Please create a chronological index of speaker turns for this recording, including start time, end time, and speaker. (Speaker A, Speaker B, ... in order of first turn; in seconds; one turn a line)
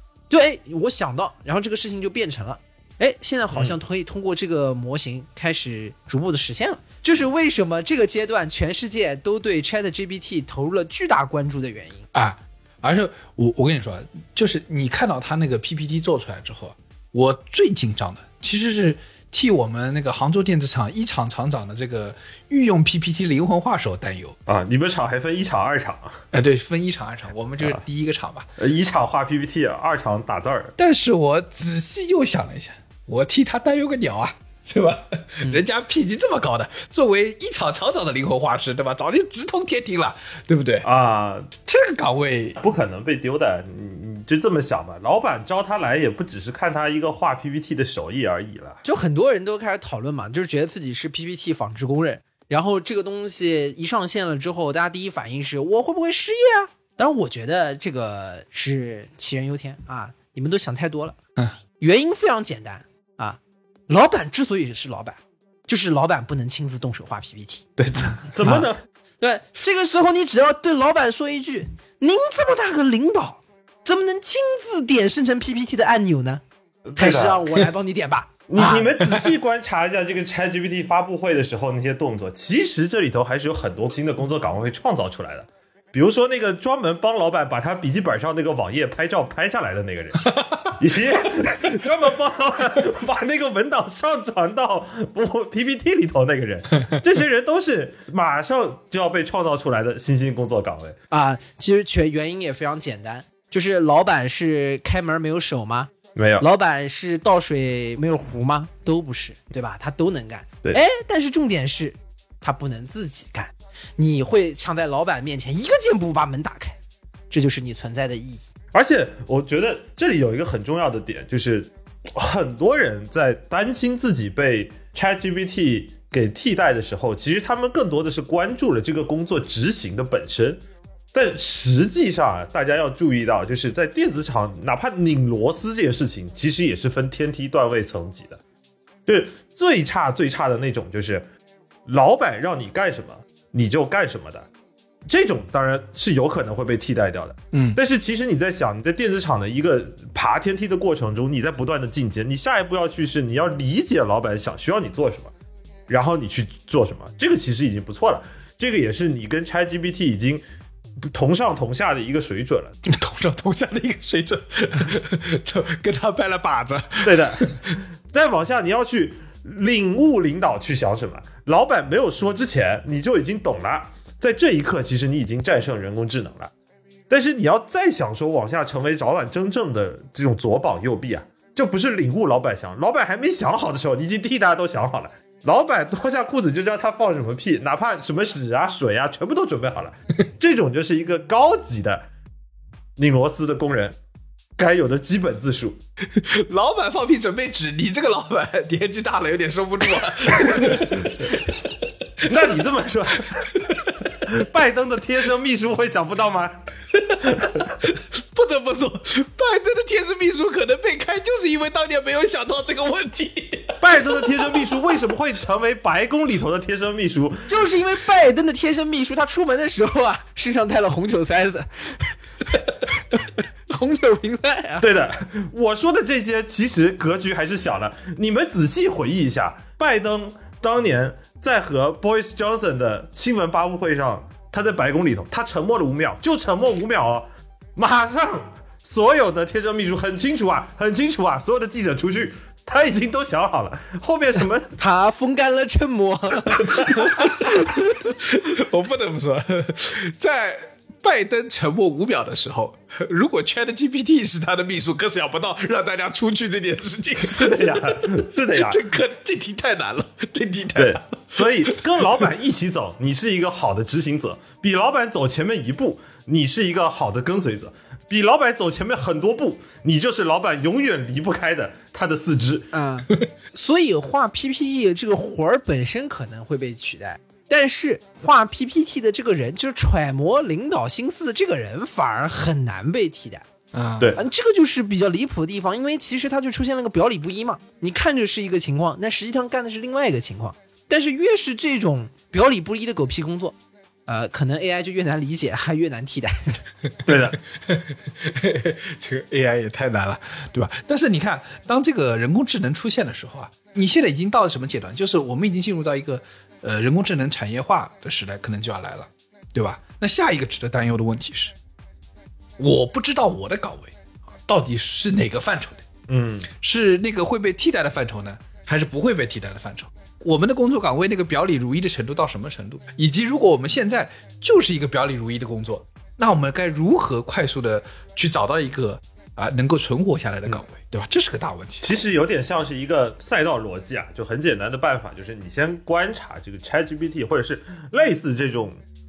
Speaker A: 0.3-12.1
Speaker B: 12.1-24.4
Speaker C: 24.5-26.2
Speaker B: 26.3-28.5
Speaker C: 28.6-30.8
Speaker B: 30.8-40.9
Speaker C: 40.8-41.5
Speaker B: 41.7-42.6
Speaker C: 42.6-48.8
Speaker A: 48.8-61.2
Speaker A: 61.8-67.7
Speaker C: 67.8-68.8
Speaker A: 69.2-76.4
Speaker C: 76.9-77.4
Speaker A: 77.0-78.9
Speaker C: 78.5-101.0
Speaker A: 101.1-116.8
Speaker C: 106.2-106.5
Speaker A: 117.3-118.5
Speaker C: 118.7-130.6
Speaker C: 131.1-138.4
Speaker C: 139.1-141.3
Speaker C: 141.9-144.5
Speaker C: 145.1-155.3
Speaker B: 147.5-147.8
Speaker C: 155.9-160.4
Speaker C: 161.0-162.7
Speaker B: 162.9-167.8
Speaker C: 167.0-167.6
Speaker C: 168.1-176.5
Speaker C: 177.1-192.1
Speaker C: 193.0-194.0
Speaker C: 194.6-195.8
Speaker B: 196.2-201.5
Speaker C: 200.5-200.8
Speaker C: 202.2-206.7
Speaker B: 203.6-204.1
Speaker B: 207.0-214.4
Speaker C: 213.8-217.6
Speaker A: 217.5-222.2
Speaker A: 223.1-224.9
Speaker C: 224.8-244.8
Speaker A: 244.8-247.8
Speaker C: 246.5-247.2
Speaker B: 248.2-261.2
Speaker C: 257.2-258.9
Speaker C: 260.8-272.7
Speaker A: 272.7-283.5
Speaker B: 283.7-284.1
Speaker A: 284.1-293.5
Speaker A: 294.1-296.6
Speaker C: 297.1-297.4
Speaker B: 297.7-311.5
Speaker B: 312.6-313.9
Speaker B: 314.5-315.9
Speaker C: 316.1-316.5
Speaker B: 316.6-331.9
Speaker C: 331.8-338.8